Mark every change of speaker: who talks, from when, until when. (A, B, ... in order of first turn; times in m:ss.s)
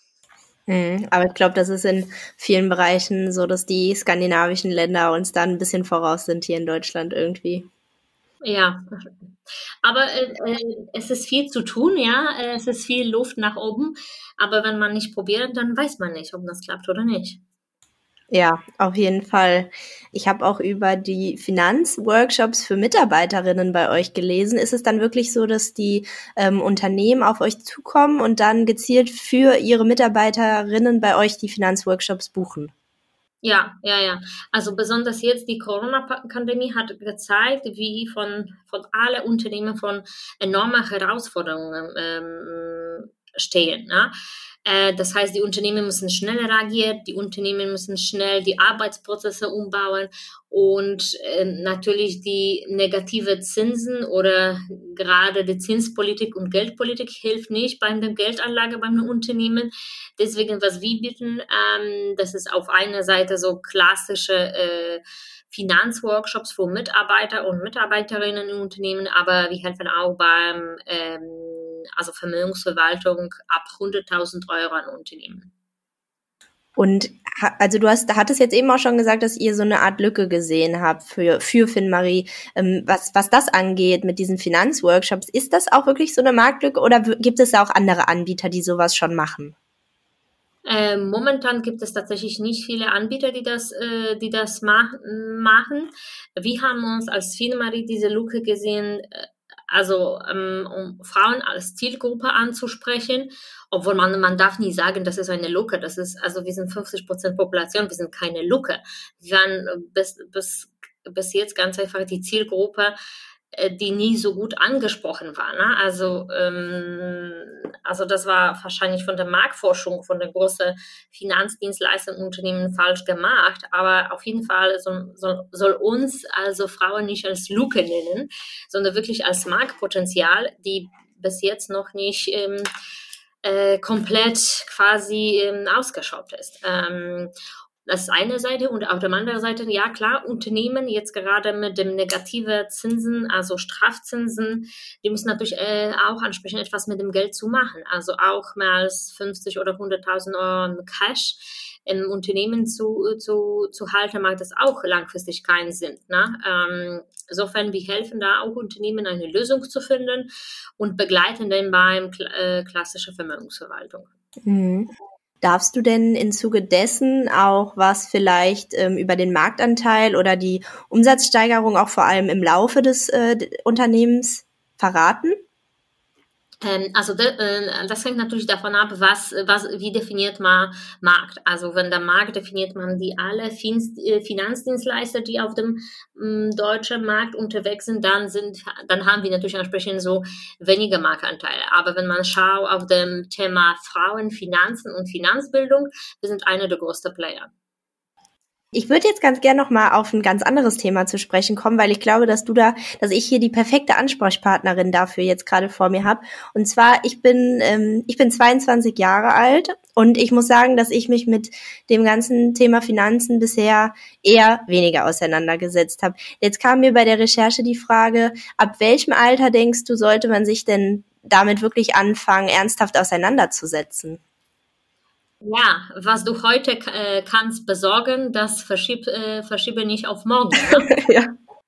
0:00.7-0:07.7 A
0:08.4-0:08.8 B
0:09.8-0:17.4 B
0:18.3-0:32.7 A
0:33.4-0:44.1 B
0:44.6-1:15.5 B
1:16.8-1:29.5 A
1:30.6-1:52.9 B
1:53.5-2:12.6 B
2:13.4-2:17.3 B
2:17.8-2:44.1 B
2:44.4-2:44.9 A
2:45.4-2:55.4 A
2:56.6-3:17.5 B
3:18.7-3:44.2 A
3:45.4-3:50.9 B
3:50.9-3:51.3 A